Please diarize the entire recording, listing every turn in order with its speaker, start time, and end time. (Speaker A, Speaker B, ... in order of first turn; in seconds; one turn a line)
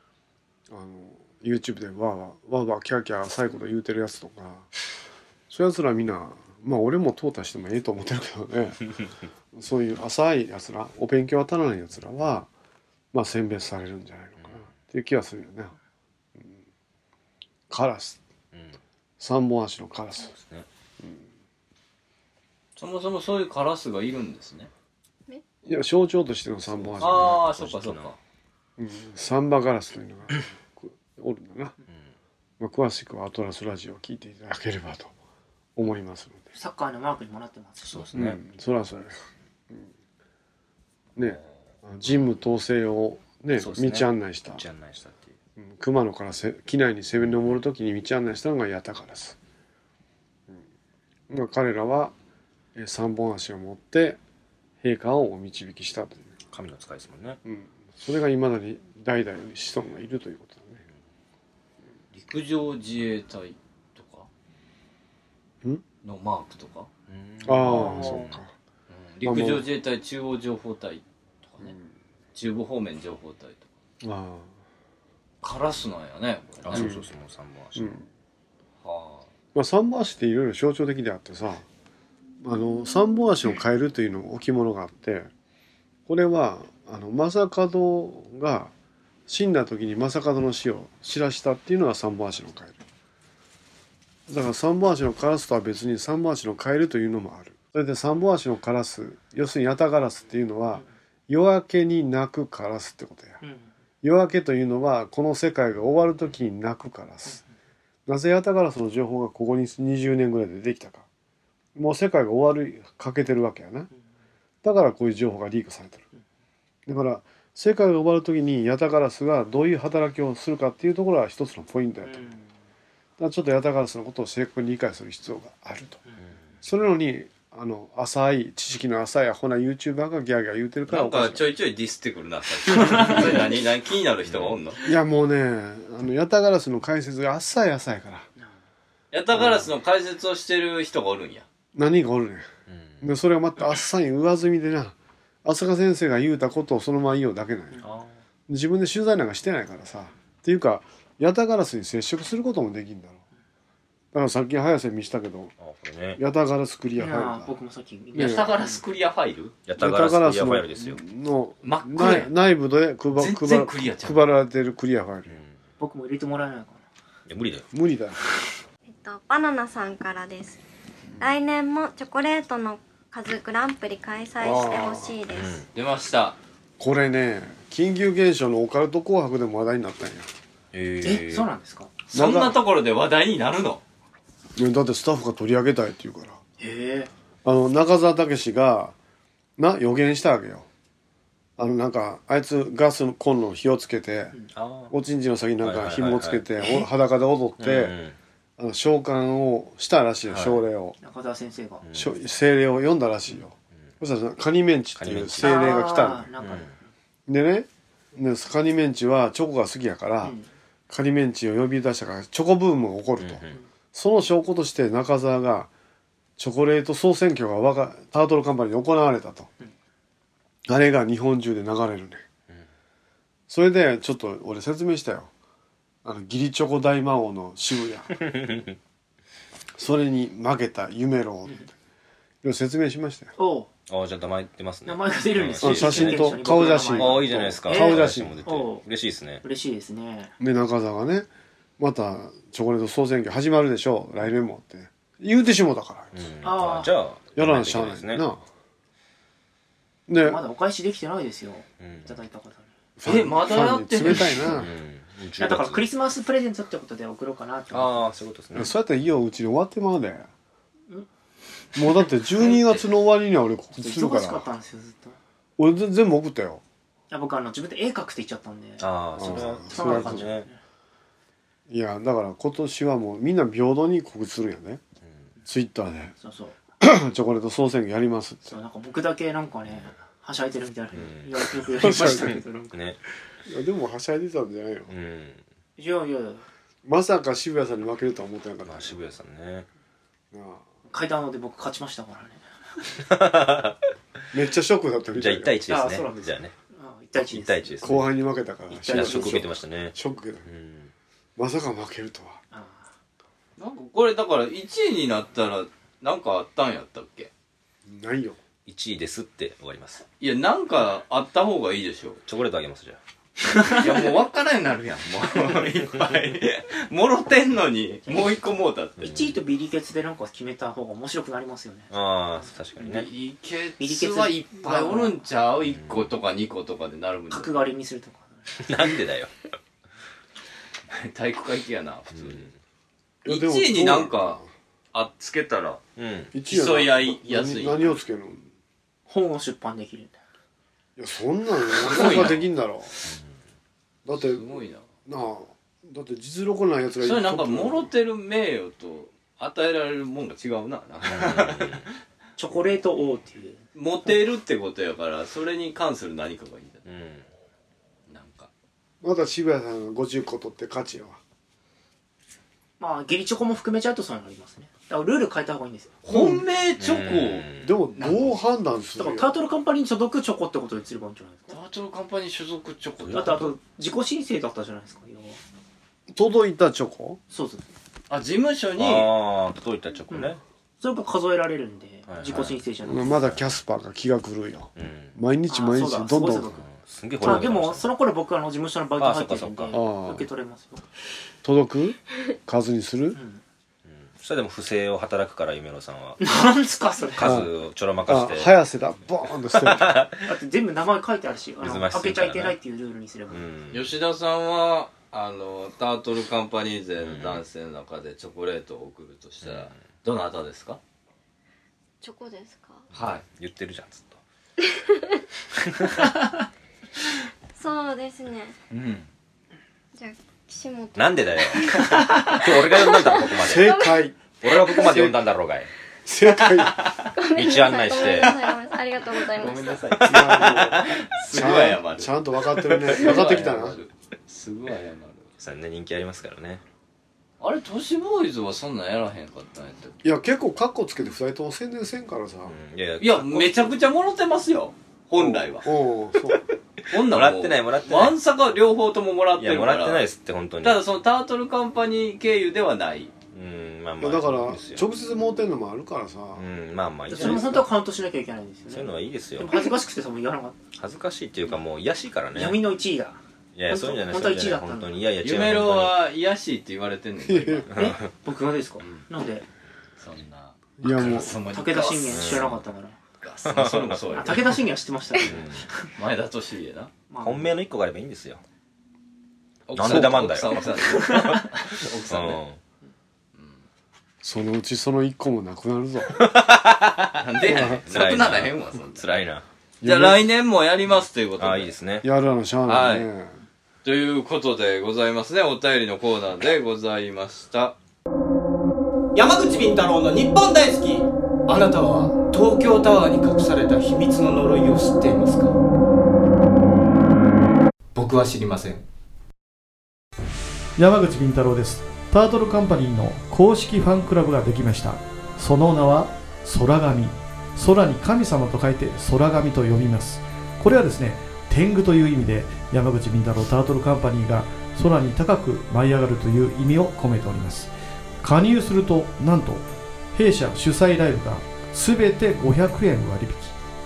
Speaker A: 0.7-4.7
Speaker A: 5.5-8.9
Speaker A: 9.5-12.5
Speaker A: 13.1-15.7
Speaker B: 14.4-14.8
Speaker A: 17.7-18.2
Speaker B: 18.5-18.8
Speaker A: 19.2-20.3
Speaker B: 20.3-20.7
Speaker C: 22.8-24.7
Speaker A: 25.6-27.5
Speaker B: 26.7-28.1
Speaker C: 27.0-28.2
Speaker A: 28.8-31.7
Speaker A: 32.6-35.1
Speaker A: 35.8-36.5
Speaker D: 36.5-38.2
Speaker B: 37.9-38.4
Speaker A: 38.1-39.2
Speaker A: 41.2-44.6
Speaker B: 43.6-45.4
Speaker A: 45.6-49.4
Speaker A: 51.3-52.1
Speaker A: 52.8-54.2
Speaker A: 54.8-56.4
Speaker B: 56.5-57.4
Speaker A: 57.5-60.8
Speaker C: 62.1-64.3
Speaker C: 66.0-66.9
Speaker B: 67.1-68.4
Speaker A: 67.5-68.5
Speaker D: 67.7-68.2
Speaker C: 67.8-68.2
Speaker C: 68.9-71.8
Speaker A: 69.2-69.7
Speaker A: 71.6-71.9
Speaker C: 72.3-73.7
Speaker A: 74.0-74.5
Speaker C: 75.4-76.9
Speaker B: 76.7-78.0
Speaker A: 76.7-77.1
Speaker A: 77.8-78.1
Speaker C: 78.8-79.3
Speaker A: 79.5-81.7
Speaker A: 82.4-85.3
Speaker A: 86.1-88.7
Speaker A: 89.3-92.8
Speaker A: 94.3-103.4
Speaker D: 103.4-103.7
Speaker A: 104.0-107.4
Speaker A: 108.1-111.1
Speaker A: 111.8-113.9
Speaker A: 114.6-116.0
Speaker A: 116.9-122.3
Speaker D: 122.0-122.5
Speaker A: 123.2-126.0
Speaker A: 126.6-131.4
Speaker C: 130.9-134.8
Speaker A: 132.7-133.3
Speaker B: 134.3-134.6
Speaker A: 134.8-138.3
Speaker C: 139.1-141.5
Speaker A: 139.3-139.7
Speaker A: 141.7-142.5
Speaker B: 142.7-143.0
Speaker A: 143.0-147.8
Speaker D: 147.8-148.1
Speaker A: 148.5-153.2
Speaker A: 154.1-155.6
Speaker B: 155.6-156.2
Speaker A: 156.2-157.6
Speaker D: 157.0-158.8
Speaker A: 158.2-158.5
Speaker C: 158.2-159.6
Speaker B: 159.7-161.0
Speaker A: 159.8-165.4
Speaker C: 161.6-162.3
Speaker C: 163.1-164.3
Speaker B: 165.3-165.6
Speaker D: 165.8-166.8
Speaker B: 167.3-167.7
Speaker A: 167.7-168.2
Speaker E: 168.9-170.6
Speaker E: 171.2-175.7
Speaker A: 174.4-175.2
Speaker B: 175.3-175.7
Speaker C: 175.7-176.4
Speaker A: 176.8-180.3
Speaker B: 180.7-181.5
Speaker D: 181.0-181.9
Speaker C: 182.1-183.8
Speaker A: 182.1-182.6
Speaker A: 184.6-186.4
Speaker D: 186.6-187.1
Speaker A: 187.4-188.9
Speaker A: 189.6-190.7
Speaker A: 191.6-194.3
Speaker B: 194.5-194.9
Speaker A: 194.9-197.9
Speaker B: 195.6-196.4
Speaker B: 197.6-198.2
Speaker A: 198.6-201.0
Speaker B: 200.3-200.6
Speaker D: 201.0-201.9
Speaker A: 201.9-206.3
Speaker B: 205.0-205.8
Speaker D: 205.4-206.8
Speaker B: 206.4-206.7
Speaker A: 207.3-210.4
Speaker D: 210.2-210.5
Speaker A: 210.9-213.4
Speaker B: 213.2-213.6
Speaker A: 213.9-215.7
Speaker A: 216.4-219.5
Speaker A: 220.7-222.2
Speaker A: 223.5-225.3
Speaker A: 226.0-228.5
Speaker B: 228.2-228.8
Speaker A: 229.8-231.7
Speaker A: 232.4-233.3
Speaker D: 233.4-233.7
Speaker B: 233.9-236.4
Speaker D: 234.8-238.9
Speaker A: 235.6-238.4
Speaker B: 236.9-239.4
Speaker D: 239.4-240.3
Speaker A: 240.4-241.3
Speaker A: 241.8-246.3
Speaker B: 246.1-248.2
Speaker D: 246.4-247.0
Speaker A: 247.4-248.4
Speaker A: 250.1-250.4
Speaker D: 250.2-252.7
Speaker B: 251.8-252.1
Speaker A: 253.0-254.7
Speaker C: 253.1-254.5
Speaker B: 254.5-255.8
Speaker D: 255.4-258.2
Speaker B: 257.7-258.7
Speaker A: 258.5-260.3
Speaker A: 261.8-264.4
Speaker D: 263.8-265.2
Speaker A: 265.6-266.6
Speaker D: 267.1-270.6
Speaker B: 268.8-270.5
Speaker A: 269.2-270.3
Speaker A: 271.7-274.8
Speaker A: 275.4-276.1
Speaker D: 276.2-276.6
Speaker A: 276.8-278.6
Speaker D: 278.5-282.8
Speaker B: 280.9-283.0
Speaker A: 281.8-282.4
Speaker A: 283.5-284.9
Speaker B: 284.9-285.4
Speaker D: 285.8-286.5
Speaker A: 286.9-289.0
Speaker B: 288.7-289.7
Speaker A: 290.3-290.6
Speaker D: 290.9-292.5
Speaker B: 293.0-293.8
Speaker A: 294.3-295.6
Speaker B: 295.1-296.5
Speaker D: 295.7-298.0
Speaker B: 297.2-298.1
Speaker A: 297.8-300.5
Speaker D: 298.7-299.6
Speaker B: 298.9-299.9
Speaker B: 300.5-300.9
Speaker A: 301.4-302.4
Speaker D: 302.5-302.9
Speaker C: 303.6-307.3
Speaker A: 307.9-308.4
Speaker B: 308.7-310.1
Speaker C: 310.2-312.2
Speaker B: 312.3-313.0
Speaker C: 313.7-319.1
Speaker B: 319.0-319.4
Speaker D: 319.0-322.5
Speaker B: 321.9-323.1
Speaker C: 322.8-327.7
Speaker D: 323.8-325.2
Speaker B: 325.6-326.1
Speaker D: 327.3-329.0
Speaker B: 328.6-329.3
Speaker C: 330.9-332.5
Speaker B: 332.2-332.5
Speaker A: 333.2-334.5
Speaker C: 333.3-334.4
Speaker C: 334.9-335.8
Speaker B: 336.0-336.3
Speaker A: 336.3-338.5
Speaker C: 336.5-338.0
Speaker D: 339.1-340.2
Speaker A: 341.0-342.9
Speaker C: 341.8-342.4
Speaker A: 344.1-344.4
Speaker C: 344.1-344.9
Speaker A: 345.1-347.9
Speaker C: 347.0-352.0
Speaker B: 351.1-351.9
Speaker D: 352.4-354.2
Speaker C: 353.8-356.9
Speaker B: 356.9-357.3
Speaker C: 358.1-358.5
Speaker A: 359.0-361.2
Speaker D: 362.8-366.0
Speaker C: 366.1-368.4
Speaker A: 366.1-366.4
Speaker B: 366.8-367.8
Speaker A: 367.6-369.4
Speaker D: 368.9-371.6
Speaker C: 371.5-373.5
Speaker B: 373.0-373.3
Speaker D: 373.1-375.4
Speaker A: 376.1-377.2
Speaker D: 377.3-377.7
Speaker C: 378.1-379.1
Speaker B: 378.8-380.4
Speaker D: 380.1-383.3
Speaker B: 382.1-382.6
Speaker A: 382.8-386.6
Speaker B: 384.8-385.2
Speaker D: 385.5-386.7
Speaker B: 386.6-387.9
Speaker D: 387.2-390.9
Speaker A: 387.2-387.5
Speaker B: 389.0-389.8
Speaker A: 389.7-390.3
Speaker A: 391.4-393.2
Speaker D: 393.1-393.4
Speaker B: 393.9-396.2
Speaker D: 396.2-397.4
Speaker B: 397.2-398.5
Speaker A: 397.2-397.5
Speaker A: 398.1-400.1
Speaker B: 399.6-400.3
Speaker D: 400.3-403.5
Speaker B: 401.6-402.6
Speaker B: 403.3-403.9
Speaker C: 403.7-410.8
Speaker B: 407.0-407.4
Speaker B: 409.4-409.7
Speaker E: 412.0-412.9
Speaker C: 412.9-413.2
Speaker B: 413.2-414.2
Speaker E: 417.6-418.6
Speaker C: 418.7-419.1
Speaker E: 419.9-424.1
Speaker B: 420.9-421.6
Speaker B: 422.3-423.7
Speaker A: 423.4-424.2
Speaker B: 424.4-425.7
Speaker A: 424.7-425.2
Speaker A: 426.1-426.8
Speaker C: 426.5-427.1
Speaker E: 427.2-429.9
Speaker B: 427.4-428.4
Speaker C: 428.0-428.4
Speaker C: 429.1-435.3
Speaker A: 430.0-433.8
Speaker B: 435.4-436.6
Speaker C: 437.4-440.0
Speaker A: 440.0-442.6
Speaker B: 442.5-443.5
Speaker C: 443.0-445.7
Speaker A: 445.2-446.4
Speaker C: 446.9-450.1
Speaker B: 447.0-448.1
Speaker B: 449.4-450.8
Speaker C: 450.6-453.1
Speaker B: 453.3-454.8
Speaker A: 454.0-456.5
Speaker B: 456.4-457.7
Speaker D: 457.1-460.6
Speaker B: 458.7-459.6
Speaker B: 460.8-462.6
Speaker D: 462.3-465.1
Speaker B: 463.6-466.0
Speaker C: 465.2-467.7
Speaker A: 467.3-467.7
Speaker B: 467.7-468.1
Speaker D: 467.8-469.5
Speaker C: 470.0-472.6
Speaker A: 470.8-471.4
Speaker D: 471.5-473.0
Speaker B: 472.1-472.6
Speaker C: 473.2-474.6
Speaker B: 473.5-474.0
Speaker D: 474.1-475.9
Speaker B: 475.3-475.6
Speaker C: 475.9-476.9
Speaker D: 477.1-477.6
Speaker B: 477.2-478.4
Speaker C: 479.7-482.4
Speaker B: 479.7-481.5
Speaker D: 481.1-481.4
Speaker B: 482.1-482.6
Speaker C: 483.4-483.6
Speaker A: 484.2-486.2
Speaker B: 486.1-489.5
Speaker C: 487.2-489.1
Speaker A: 487.5-487.8
Speaker A: 489.8-490.2
Speaker C: 489.8-491.8
Speaker B: 491.4-492.1
Speaker A: 492.0-493.4
Speaker C: 492.7-493.1
Speaker C: 493.8-497.8
Speaker F: 499.1-505.5
Speaker F: 507.9-508.8
Speaker G: 510.8-527.7
Speaker G: 528.2-533.5